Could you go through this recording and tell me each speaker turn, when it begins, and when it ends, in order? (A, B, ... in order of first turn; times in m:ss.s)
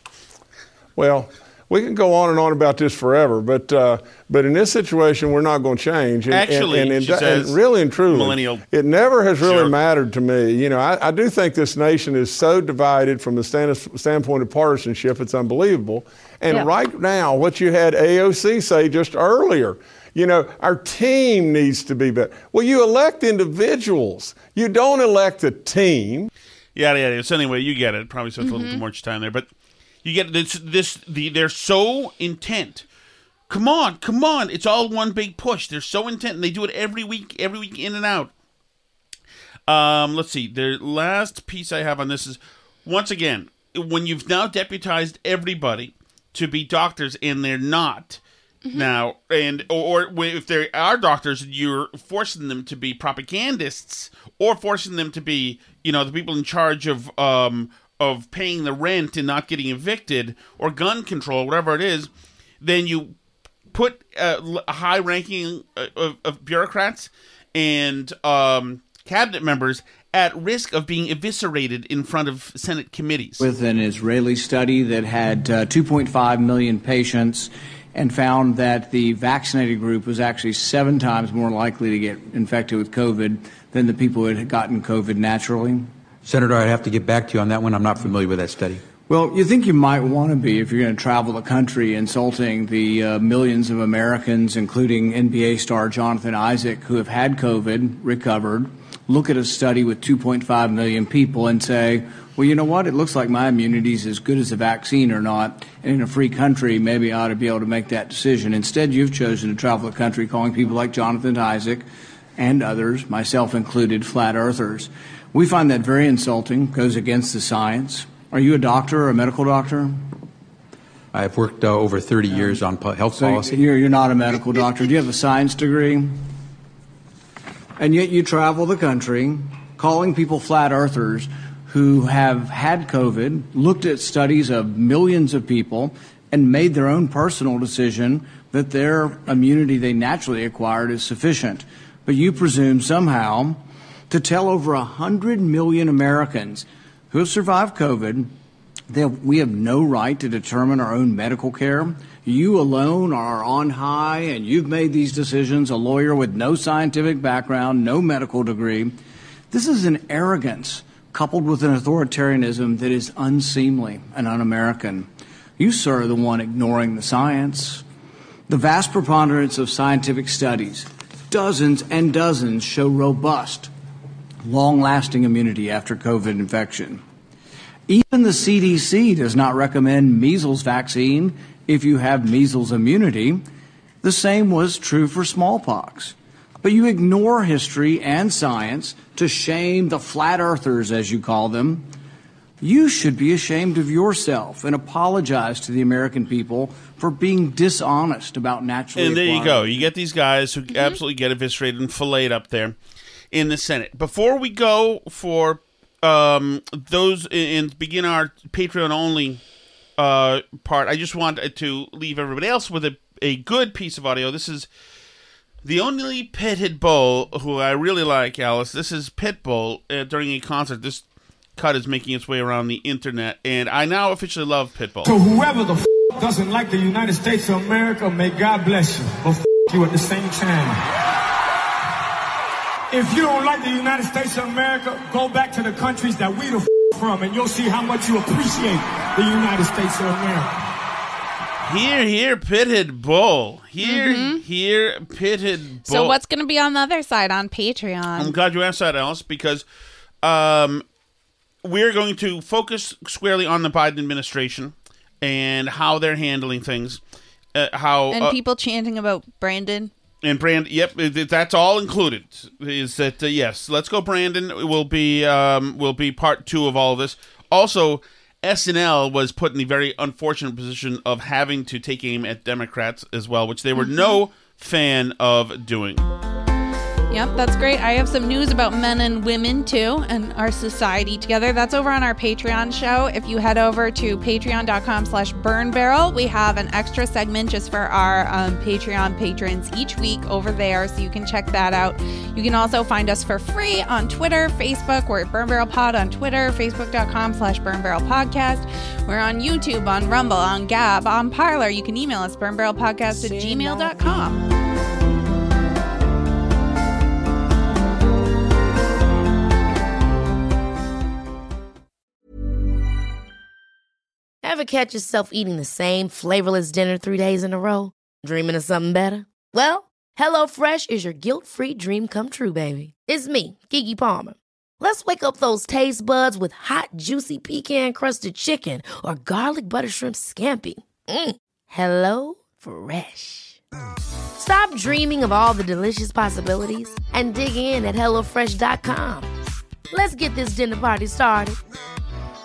0:01.0-0:26.3 A
0:06.3-0:08.6 B
0:09.4-0:09.7 B
0:26.7-0:29.5 B
0:28.4-0:28.8 C
0:30.0-0:32.8 B
0:33.5-0:38.3 B
0:39.7-0:48.2 B
0:48.7-1:02.1 B
1:02.6-1:03.1 B
1:03.7-1:13.4 B
1:13.4-1:25.9 D
1:26.2-1:28.8 E
1:29.1-1:51.8 D
1:52.4-2:00.1 D
2:01.1-2:03.6 E
2:02.3-2:02.6 D
2:03.1-2:06.1 D
2:07.8-2:28.3 D
2:28.9-2:38.9 D
2:39.5-2:47.8 D
2:48.5-2:53.7 D
2:54.4-2:57.0 D
2:57.9-3:03.4 D
3:04.0-3:11.8 D
3:12.6-3:19.9 D
3:18.9-3:22.8 B
3:20.7-3:21.0 C
3:23.3-3:29.4 B
3:30.0-3:34.7 B
3:35.6-3:41.0 B
3:41.6-3:45.1 B
3:45.0-3:50.8 F
3:52.9-4:00.5 F
4:01.6-4:06.2 B
4:03.8-4:04.4 C
4:05.8-4:08.3 C
4:08.2-4:09.6 B
4:10.2-4:10.8 B
4:11.6-4:17.0 B
4:17.5-4:18.4 B
4:18.1-4:19.9 C
4:20.2-4:36.0 B
4:33.8-4:34.2 C
4:37.1-5:04.4 C
5:14.4-5:33.6 G
5:34.4-5:39.3 G
5:39.9-5:41.6 G